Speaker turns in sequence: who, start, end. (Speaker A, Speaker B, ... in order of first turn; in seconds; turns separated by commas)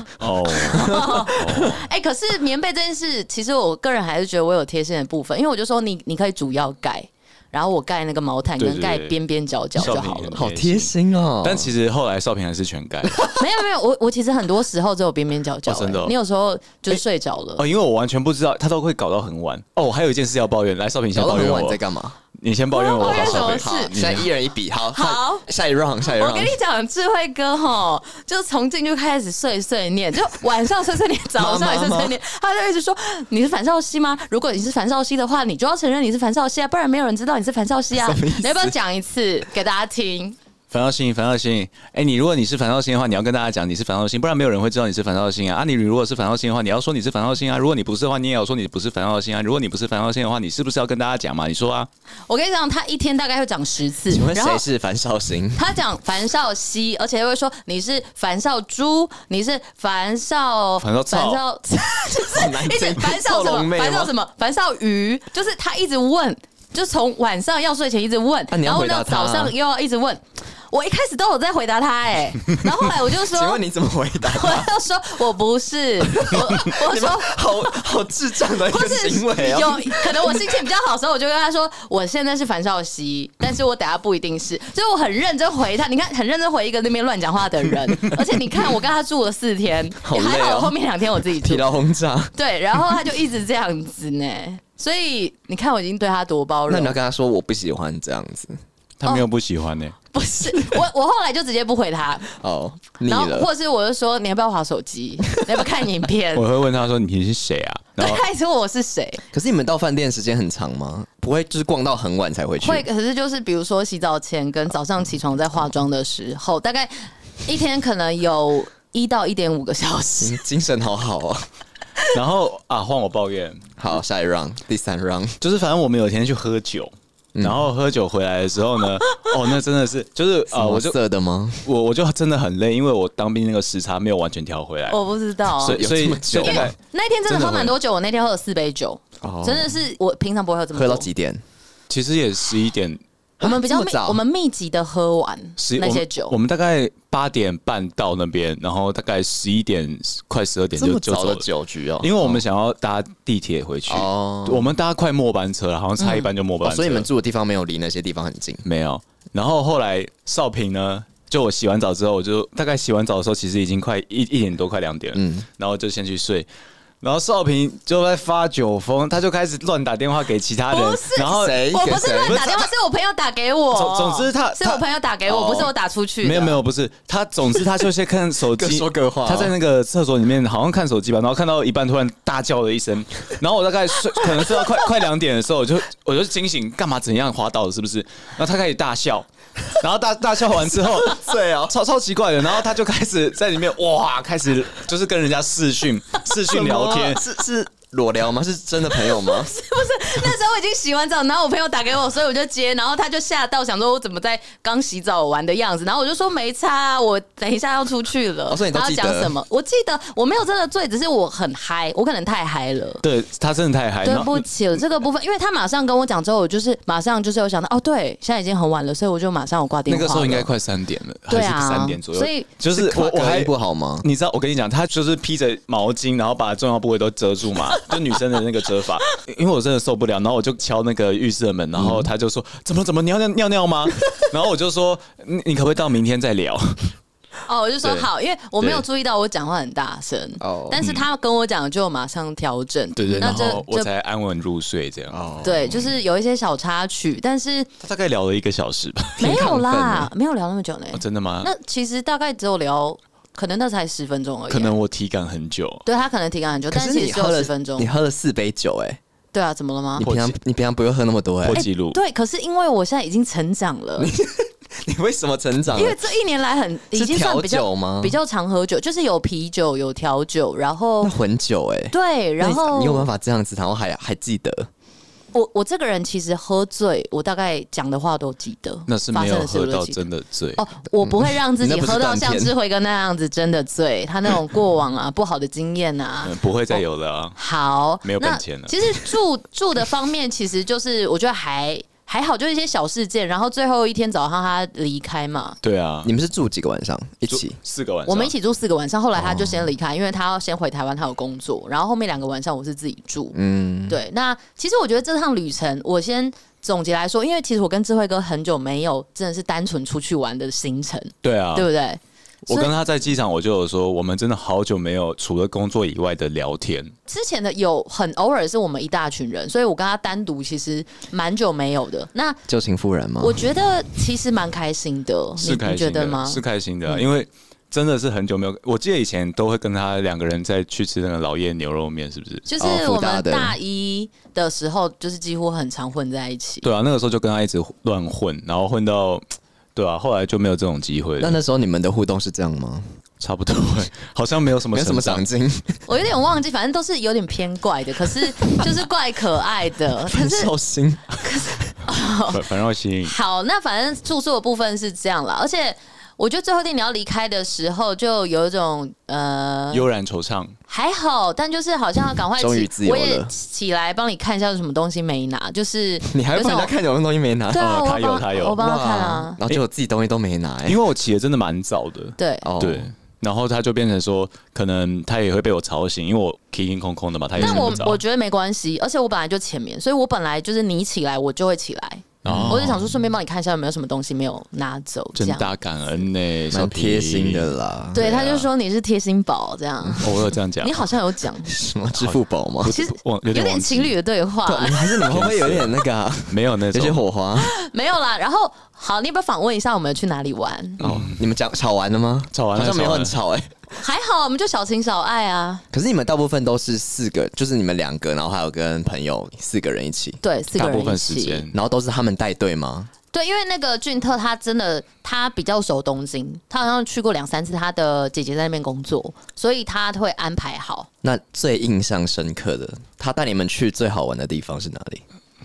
Speaker A: 0.2-1.9, Speaker B: 0.5-10.4, Speaker C: 0.7-1.7, Speaker A: 8.6-9.2, Speaker A: 9.7-13.3, Speaker C: 10.3-11.7, Speaker B: 13.3-17.6, Speaker A: 15.7-16.1, Speaker A: 17.6-21.8, Speaker C: 21.1-22.2, Speaker A: 22.4-24.3, Speaker B: 22.7-23.9, Speaker C: 23.0-26.5, Speaker B: 24.9-25.4, Speaker B: 26.0-40.4, Speaker C: 31.4-32.1, Speaker C: 38.0-38.7, Speaker A: 40.7-51.9, Speaker B: 52.3-54.6, Speaker C: 54.1-55.6, Speaker B: 55.5-73.6, Speaker A: 60.8-61.4, Speaker C: 62.2-64.1, Speaker C: 68.5-69.5, Speaker C: 73.3-74.7, Speaker B: 74.2-77.4, Speaker C: 76.0-80.5, Speaker B: 78.6-91.7, Speaker C: 90.0-92.3, Speaker B: 92.3-97.0, Speaker C: 96.7-98.6, Speaker A: 99.0-99.9, Speaker B: 100.1-102.3, Speaker C: 102.3-103.5, Speaker B: 103.0-106.5, Speaker A: 106.3-108.2, Speaker B: 108.0-109.2, Speaker C: 109.3-112.8, Speaker B: 112.6-120.4, Speaker C: 120.2-121.5, Speaker A: 122.1-123.6, Speaker C: 123.8-125.4, Speaker A: 125.4-130.9, Speaker C: 127.3-127.7, Speaker C: 130.5-131.7, Speaker A: 131.6-135.0, Speaker B: 134.9-135.8, Speaker A: 135.6-137.8, Speaker C: 135.6-136.7, Speaker B: 136.4-141.1, Speaker C: 139.2-139.7, Speaker C: 140.7-141.4, Speaker A: 141.9-143.0, Speaker C: 143.4-144.2, Speaker B: 143.4-146.3, Speaker A: 145.6-151.4, Speaker C: 150.7-152.4, Speaker A: 152.0-157.1, Speaker C: 153.9-154.8, Speaker B: 156.0-156.3, Speaker C: 156.6-158.6, Speaker A: 158.6-166.5, Speaker C: 165.1-165.4, Speaker A: 167.0-172.7, Speaker B: 170.7-176.6, Speaker C: 171.3-172.4, Speaker A: 173.7-174.8, Speaker C: 175.2-175.7, Speaker A: 176.2-197.2, Speaker C: 178.5-179.5, Speaker C: 190.7-191.7, Speaker C: 196.5-199.5, Speaker B: 199.0-213.0, Speaker C: 208.5-209.3, Speaker A: 213.0-214.5, Speaker B: 214.0-220.5, Speaker A: 219.9-223.5, Speaker B: 221.3-222.5, Speaker C: 222.7-224.1, Speaker A: 224.0-236.9, Speaker C: 231.8-232.1, Speaker B: 237.5-243.9, Speaker A: 237.8-238.1, Speaker A: 238.6-238.8, Speaker C: 240.4-240.8, Speaker A: 240.8-241.0, Speaker A: 243.0-245.2, Speaker C: 243.1-243.5, Speaker C: 245.1-245.9, Speaker B: 245.4-247.7, Speaker A: 247.8-249.4, Speaker C: 249.2-250.1, Speaker B: 249.2-254.7, Speaker A: 250.9-251.5, Speaker A: 254.5-255.8, Speaker B: 255.8-257.9, Speaker C: 256.7-259.0, Speaker B: 259.3-260.1, Speaker C: 260.0-261.6, Speaker A: 260.0-260.3, Speaker A: 261.4-262.0, Speaker B: 261.5-264.1, Speaker C: 264.0-266.0, Speaker B: 265.7-271.1, Speaker C: 266.9-268.1, Speaker C: 271.0-274.7, Speaker B: 271.9-273.1, Speaker B: 275.3-286.8, Speaker A: 278.9-280.6, Speaker C: 281.0-282.5, Speaker A: 286.2-287.4, Speaker B: 287.4-295.6, Speaker A: 288.0-288.8, Speaker A: 295.6-296.1, Speaker C: 296.0-297.6, Speaker A: 297.3-298.3, Speaker B: 298.1-303.4, Speaker C: 299.1-299.7, Speaker C: 303.3-304.0, Speaker B: 303.9-312.7, Speaker A: 311.2-311.7, Speaker A: 312.4-316.9, Speaker B: 317.1-322.4, Speaker C: 322.5-323.5, Speaker B: 323.2-327.1, Speaker A: 325.4-332.5, Speaker B: 332.5-336.7, Speaker C: 332.6-333.6, Speaker A: 336.6-339.2, Speaker A: 339.7-341.4, Speaker C: 341.2-342.9, Speaker A: 343.2-345.2, Speaker C: 344.7-345.8, Speaker B: 345.9-350.5, Speaker C: 350.1-351.7, Speaker B: 351.2-352.4, Speaker A: 352.3-353.1, Speaker B: 353.0-359.8, Speaker A: 359.7-360.6, Speaker B: 360.7-366.7, Speaker C: 362.4-363.3, Speaker C: 366.0-367.6, Speaker B: 367.5-369.4, Speaker A: 367.6-368.6, Speaker C: 368.5-370.8, Speaker A: 370.6-378.0, Speaker B: 372.2-372.5, Speaker C: 372.4-372.9, Speaker C: 377.4-377.8, Speaker B: 377.4-385.5, Speaker A: 382.2-382.8, Speaker C: 382.2-382.8, Speaker A: 385.1-387.5, Speaker C: 386.5-388.4, Speaker B: 387.9-391.5, Speaker A: 390.0-390.9, Speaker C: 391.4-392.7, Speaker A: 391.9-393.9, Speaker B: 392.6-394.8, Speaker C: 394.4-397.5, Speaker A: 395.1-395.8, Speaker A: 396.3-397.0, Speaker B: 397.4-400.8, Speaker C: 400.8-403.5, Speaker A: 400.8-401.3, Speaker A: 402.3-403.1, Speaker B: 403.8-405.6, Speaker C: 405.7-410.2, Speaker B: 410.2-411.4, Speaker A: 410.6-411.5, Speaker C: 411.5-412.9, Speaker B: 413.1-420.9, Speaker C: 421.0-425.0